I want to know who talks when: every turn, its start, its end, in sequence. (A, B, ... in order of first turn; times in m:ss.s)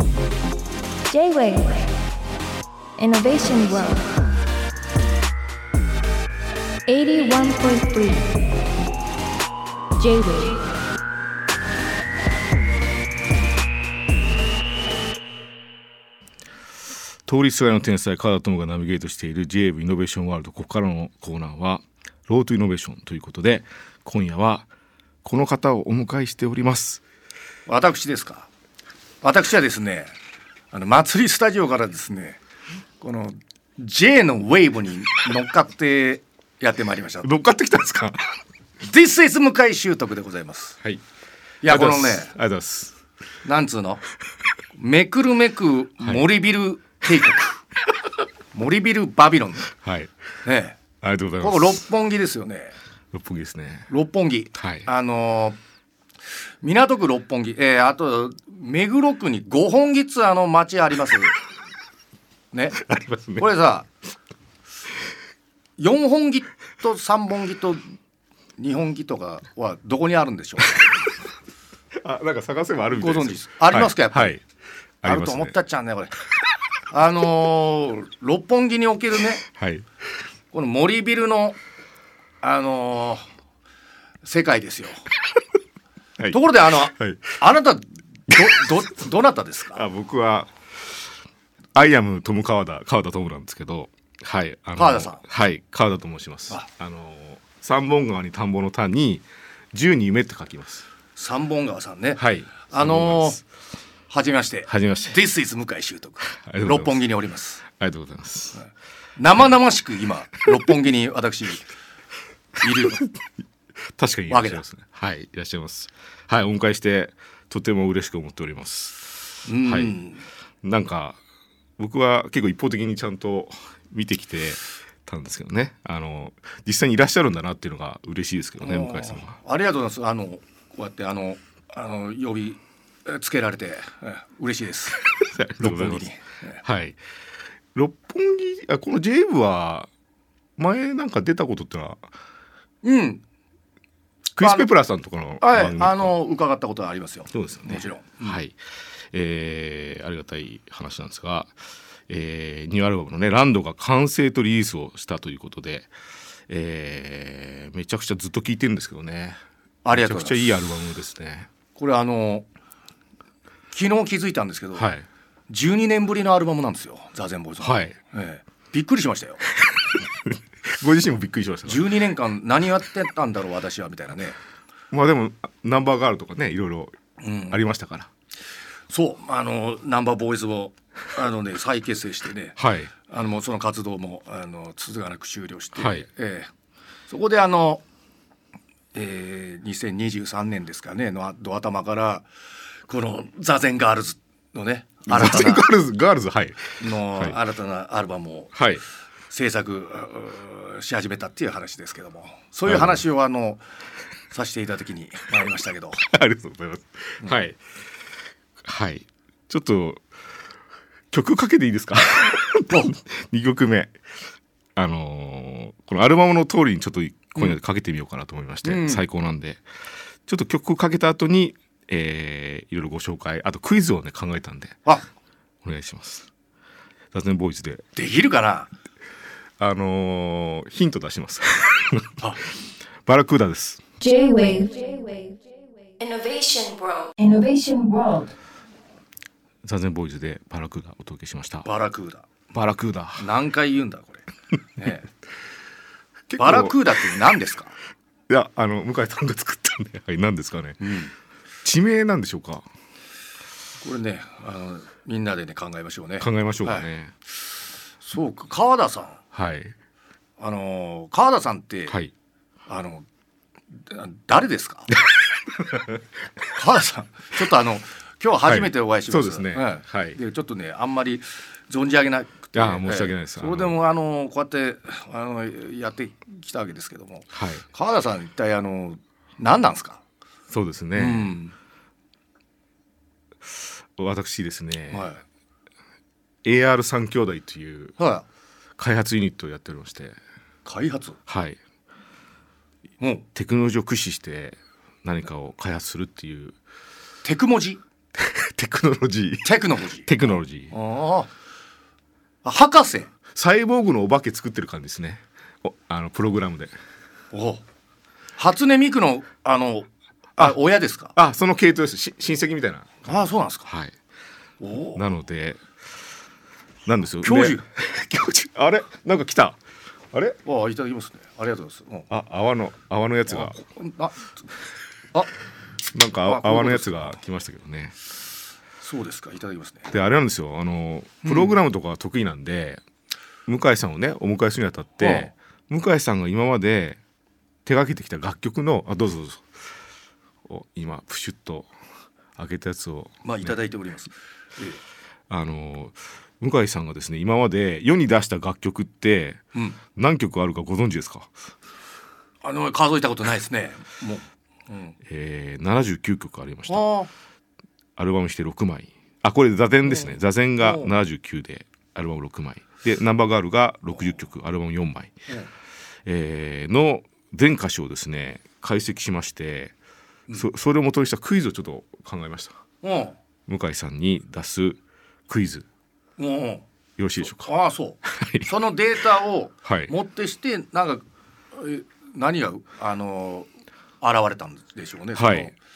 0:01.1-0:01.9 A
0:03.0-0:04.3 A
0:06.9-0:08.4 A
0:10.0-0:10.6 A
0:17.3-0:24.7 B
0:25.2-0:27.0 B
0:27.7-0:28.5 C
0:29.2-0:30.1 C
0:30.7-0:32.4 C
0:33.0-0:37.3 C
0:37.2-0:38.4 B
0:38.8-0:40.8 C
0:41.6-0:42.3 C
0:41.7-0:43.0 B
0:43.4-0:44.0 C
0:44.8-0:47.6 C
0:46.0-0:46.3 B
0:48.5-0:49.7 C
0:49.7-0:50.1 B
0:50.4-0:50.8 C
0:51.0-0:51.8 B
0:51.4-0:52.8 C
0:53.1-0:53.9 B
0:53.9-0:55.6 C
0:54.6-0:54.9 B
0:56.6-1:01.4 C
1:02.5-1:02.8 C
1:02.8-1:03.5 B
1:03.4-1:03.9 C
1:05.8-1:07.9 C
1:08.6-1:11.0 C
1:12.0-1:14.4 B
1:12.9-1:14.4 C
1:15.0-1:15.5 B
1:15.0-1:16.2 C
1:16.9-1:19.4 C
1:19.4-1:19.8 B
1:20.5-1:21.6 C
1:22.4-1:23.3 C
1:24.2-1:25.0 C
1:26.2-1:27.4 B
1:26.3-1:29.8 C
1:29.7-1:30.5 B
1:31.8-1:40.9 B
1:34.8-1:35.2 C
1:41.2-1:43.4 C
1:42.2-1:43.4 B
1:44.1-1:47.6 C
1:44.7-1:45.2 B
1:46.3-1:47.0 B
1:47.7-1:48.6 B
1:48.5-1:51.7 C
1:52.6-1:53.0 C
1:54.0-1:59.1 B
1:54.3-1:54.6 C
1:59.5-2:00.3 C
1:59.6-2:00.0 B
2:00.6-2:01.2 B
2:01.8-2:09.4 B
2:08.6-2:15.0 C
2:15.1-2:16.1 B
2:15.6-2:16.6 C
2:16.6-2:17.0 B
2:17.8-2:19.9 B
2:20.6-2:22.1 B
2:22.8-2:23.2 C
2:24.4-2:26.1 B
2:24.4-2:24.7 C
2:25.4-2:28.4 C
2:27.3-2:35.9 B
2:36.5-2:39.4 B
2:39.8-2:40.5 C
2:39.9-2:41.5 B
2:41.8-2:42.5 C
2:43.7-2:44.9 C
2:44.8-2:45.0 B
2:45.5-2:49.4 C
2:47.6-2:48.0 B
2:50.0-2:51.8 B
2:51.6-2:54.4 C
2:54.9-2:57.0 B
2:57.2-2:57.6 C
2:57.5-2:58.1 B
2:58.9-3:06.5 C
3:02.6-3:02.9 B
3:05.8-3:06.1 B
3:07.1-3:07.8 C
3:08.9-3:12.3 C
3:12.9-3:15.7 C
3:15.1-3:17.4 B
3:16.8-3:18.6 C
3:18.6-3:18.8 B
3:19.3-3:23.6 C
3:22.7-3:23.0 B
3:24.3-3:26.1 C
3:26.0-3:27.7 B
3:28.6-3:30.0 B
3:31.1-3:33.9 B
3:32.7-3:32.9 C
3:34.8-3:39.6 B
3:38.6-3:39.0 C
3:40.3-3:44.8 B
3:45.6-3:46.3 B
3:47.1-3:47.8 B
3:48.0-3:48.7 C
3:49.6-3:52.2 B
3:53.1-3:53.8 B
3:54.0-3:58.3 A
3:59.6-4:01.7 B
4:01.6-4:02.3 C
4:02.5-4:03.3 B
4:03.2-4:05.1 C
4:06.3-4:07.0 B
4:06.4-4:07.7 C
4:08.3-4:10.8 B
4:10.8-4:11.1 C
4:11.6-4:12.7 B
4:13.8-4:16.9 C
4:16.2-4:17.1 B
4:18.0-4:19.2 C
4:19.3-4:19.7 B
4:20.4-4:22.0 C
4:22.7-4:23.1 C
4:23.7-4:25.0 C
4:25.6-4:26.0 B
4:26.5-4:40.0 C
4:28.4-4:30.2 B
4:32.5-4:33.8 B
4:37.3-4:37.7 B
4:40.5-4:41.3 B
4:41.0-4:41.5 C
4:43.5-4:45.1 B
4:44.9-4:45.2 C
4:46.4-4:48.0 B
4:48.0-4:48.3 C
4:48.8-4:50.2 B
4:50.6-4:51.2 C
4:51.3-4:51.6 B
4:53.0-4:53.3 C
4:53.4-4:56.6 B
4:57.2-4:57.8 C
4:58.2-5:00.7 B
4:59.4-5:00.1 C
5:00.7-5:01.3 C
5:02.4-5:03.1 C
5:03.3-5:06.7 B
5:07.3-5:07.6 C
5:08.4-5:11.2 C
5:11.2-5:14.0 B
5:13.0-5:13.7 C
5:14.6-5:15.0 C
5:15.0-5:15.6 B
5:16.9-5:19.6 B
5:17.2-5:17.6 C
5:20.1-5:20.4 B
5:20.4-5:22.1 C
5:22.1-5:23.6 B
5:23.3-5:24.4 C
5:25.9-5:28.0 B
5:26.3-5:27.2 C
5:28.8-5:29.9 C
5:29.9-5:32.8 B
5:31.2-5:31.6 C
5:33.5-5:37.0 B
5:35.0-5:35.3 C
5:37.7-5:39.6 B
5:40.5-5:41.7 B
5:42.4-5:43.5 B
5:43.2-5:44.8 C
5:45.3-5:49.4 B
5:50.0-5:51.3 B
5:52.4-5:55.0 C
5:55.1-5:56.9 B
5:56.7-5:57.1 C
5:58.0-6:05.1 B
5:59.8-6:00.9 C
6:06.1-6:09.7 B
6:10.4-6:12.6 B
6:12.8-6:13.2 C
6:13.5-6:15.7 B
6:16.2-6:16.6 C
6:17.0-6:17.5 B
6:17.3-6:23.5 C
6:18.0-6:18.5 B
6:19.6-6:19.9 B
6:24.0-6:25.6 C
6:25.2-6:25.5 B